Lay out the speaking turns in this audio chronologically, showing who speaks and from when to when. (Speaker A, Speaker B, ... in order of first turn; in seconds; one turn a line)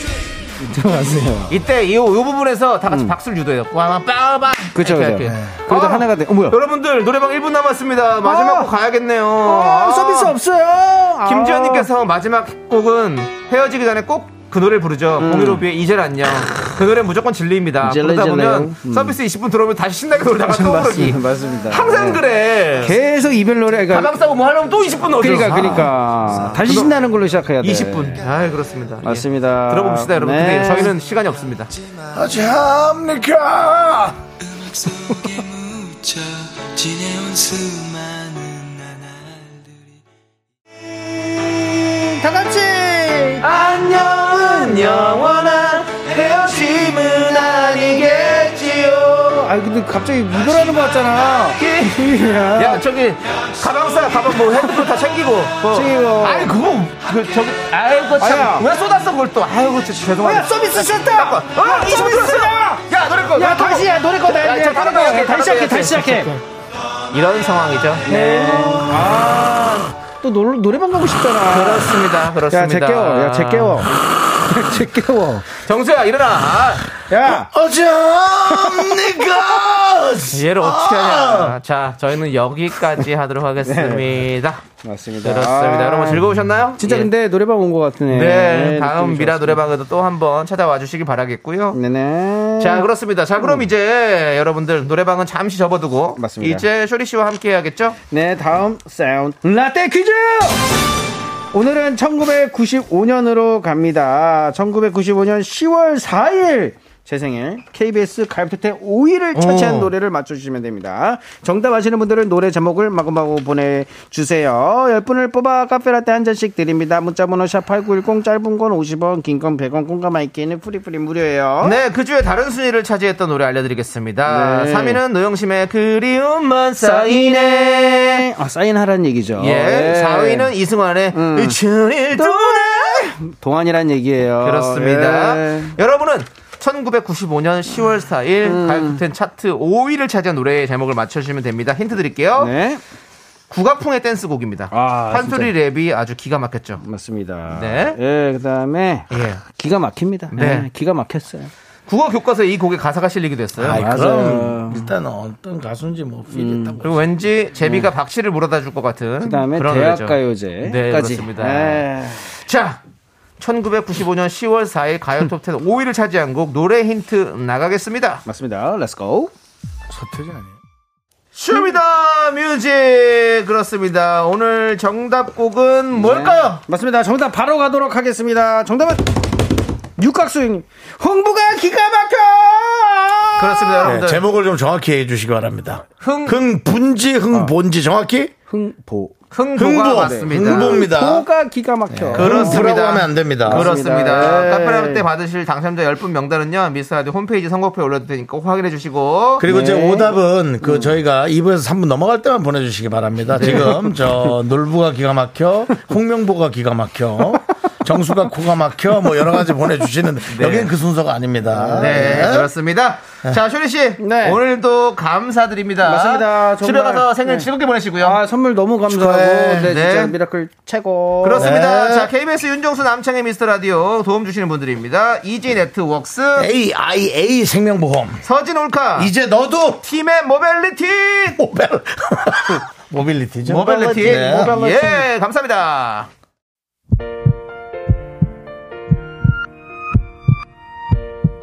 Speaker A: 0.6-1.6
Speaker B: 1.5-10.4
Speaker A: 2.9-3.1
Speaker A: 4.8-6.6
Speaker A: 8.2-8.7
Speaker A: 9.4-11.9
Speaker B: 11.2-23.0
Speaker A: 15.2-15.7
Speaker A: 17.8-19.2
Speaker A: 20.3-22.2
Speaker A: 22.8-24.1
Speaker B: 23.9-26.9
Speaker A: 25.1-28.2
Speaker B: 27.6-31.7
Speaker A: 29.0-30.9
Speaker C: 32.1-34.3
Speaker C: 34.8-35.9
Speaker C: 37.1-37.6
Speaker A: 41.9-43.5
Speaker B: 43.4-49.5
Speaker A: 44.6-45.3
Speaker A: 49.3-52.8
Speaker B: 51.6-66.4
Speaker A: 54.5-54.9
Speaker A: 55.6-56.6
Speaker A: 58.2-58.7
Speaker A: 60.2-66.3
Speaker B: 67.1-68.8
Speaker A: 68.0-75.5
Speaker B: 71.4-73.9
Speaker B: 75.6-76.9
Speaker A: 77.1-77.5
Speaker C: 77.2-81.6
Speaker B: 80.3-84.7
Speaker A: 83.6-84.1
Speaker A: 84.8-86.3
Speaker B: 85.2-87.1
Speaker A: 86.8-89.6
Speaker B: 88.1-91.8
Speaker A: 91.7-93.7
Speaker B: 92.6-98.0
Speaker A: 96.2-96.7
Speaker A: 98.1-100.7
Speaker A: 101.5-121.8
Speaker B: 109.3-109.9
Speaker B: 121.6-128.2
Speaker A: 124.3-125.0
Speaker A: 126.8-130.5
Speaker B: 129.4-133.2
Speaker A: 131.1-131.6
Speaker A: 132.1-135.8
Speaker B: 134.4-142.5
Speaker A: 138.4-139.0
Speaker A: 142.4-142.8
Speaker B: 143.5-146.8
Speaker A: 144.7-145.5
Speaker A: 146.8-151.5
Speaker B: 147.5-148.0
Speaker B: 149.1-149.4
Speaker B: 150.3-150.7
Speaker B: 151.9-153.9
Speaker C: 153.6-157.0
Speaker A: 153.7-154.9
Speaker A: 156.3-156.8
Speaker B: 156.8-162.8
Speaker A: 157.6-157.9
Speaker A: 159.2-162.4
Speaker B: 163.4-168.2
Speaker A: 168.3-169.3
Speaker C: 169.9-170.6
Speaker B: 171.3-176.6
Speaker A: 175.9-179.4
Speaker A: 180.0-183.9
Speaker B: 183.4-184.2
Speaker C: 183.8-188.3
Speaker B: 186.0-186.4
Speaker A: 188.5-189.2
Speaker B: 189.3-190.8
Speaker C: 189.6-191.3
Speaker A: 189.9-192.7
Speaker C: 191.9-193.7
Speaker B: 192.1-199.4
Speaker A: 193.5-195.0
Speaker C: 199.4-212.5
Speaker A: 199.4-200.9
Speaker B: 203.4-203.8
Speaker A: 203.4-203.9
Speaker B: 210.3-210.7
Speaker A: 211.5-212.2
Speaker B: 211.8-218.2
Speaker A: 214.0-214.4
Speaker A: 215.8-217.5
Speaker A: 218.0-221.5
Speaker C: 218.9-219.7
Speaker B: 219.6-220.2
Speaker B: 221.2-226.5
Speaker C: 221.4-222.1
Speaker C: 226.4-228.2
Speaker B: 228.2-229.1
Speaker C: 229.0-229.8
Speaker B: 229.8-231.4
Speaker C: 231.4-234.6
Speaker B: 233.4-236.1
Speaker A: 233.6-235.1